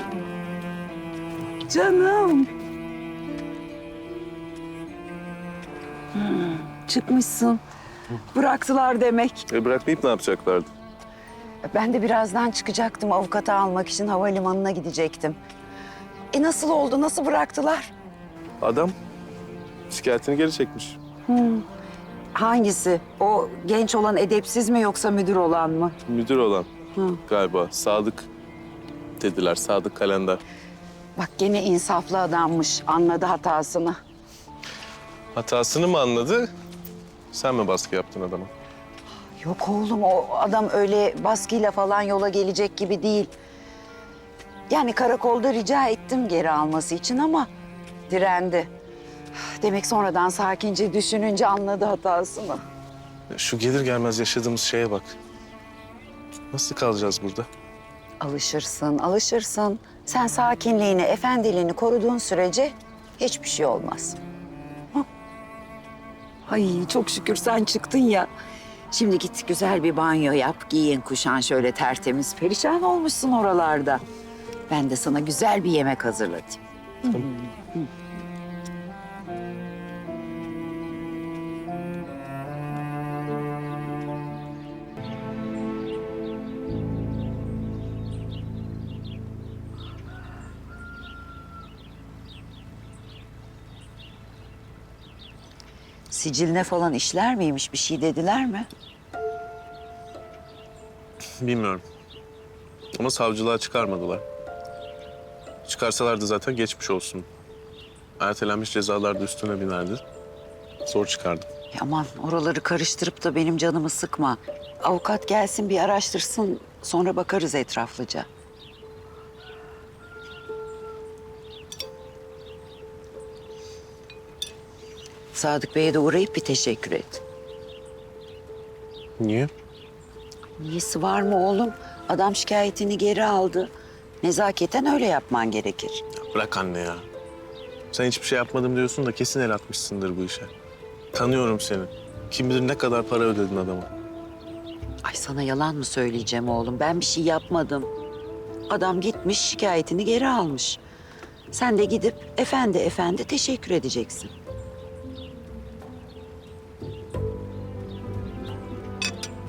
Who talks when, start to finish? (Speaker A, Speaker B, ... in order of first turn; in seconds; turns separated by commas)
Speaker A: 1.7-2.5, Speaker A: 6.1-7.6, Speaker A: 8.3-9.5, Speaker B: 9.5-10.7, Speaker A: 11.7-15.4, Speaker A: 16.3-17.9, Speaker B: 18.6-18.9, Speaker B: 19.9-21.0, Speaker A: 21.3-21.7, Speaker A: 22.4-26.0, Speaker B: 26.1-26.7, Speaker A: 26.9-27.2, Speaker B: 27.3-28.3, Speaker B: 29.2-30.4, Speaker A: 31.2-34.0, Speaker B: 35.4-36.5, Speaker B: 37.3-38.5, Speaker A: 39.4-43.3, Speaker A: 44.7-47.5, Speaker A: 48.1-48.7, Speaker A: 49.3-52.6, Speaker B: 53.3-55.2, Speaker B: 56.5-57.5, Speaker A: 58.2-64.2, Speaker A: 66.5-68.3, Speaker A: 68.9-74.0, Speaker A: 74.7-77.9, Speaker A: 96.1-98.7, Speaker B: 101.4-101.8, Speaker B: 103.0-104.2, Speaker B: 105.7-107.3, Speaker B: 108.2-110.0, Speaker B: 110.8-111.5, Speaker A: 111.7-118.3, Speaker A: 125.3-127.2, Speaker B: 129.2-129.5, Speaker A: 130.6-133.7, Speaker A: 134.2-136.0, Speaker B: 136.1-137.1, Speaker B: 137.9-140.5, Speaker B: 141.1-143.9, Speaker A: 145.0-147.9, Speaker A: 148.7-150.8, Speaker A: 151.5-154.3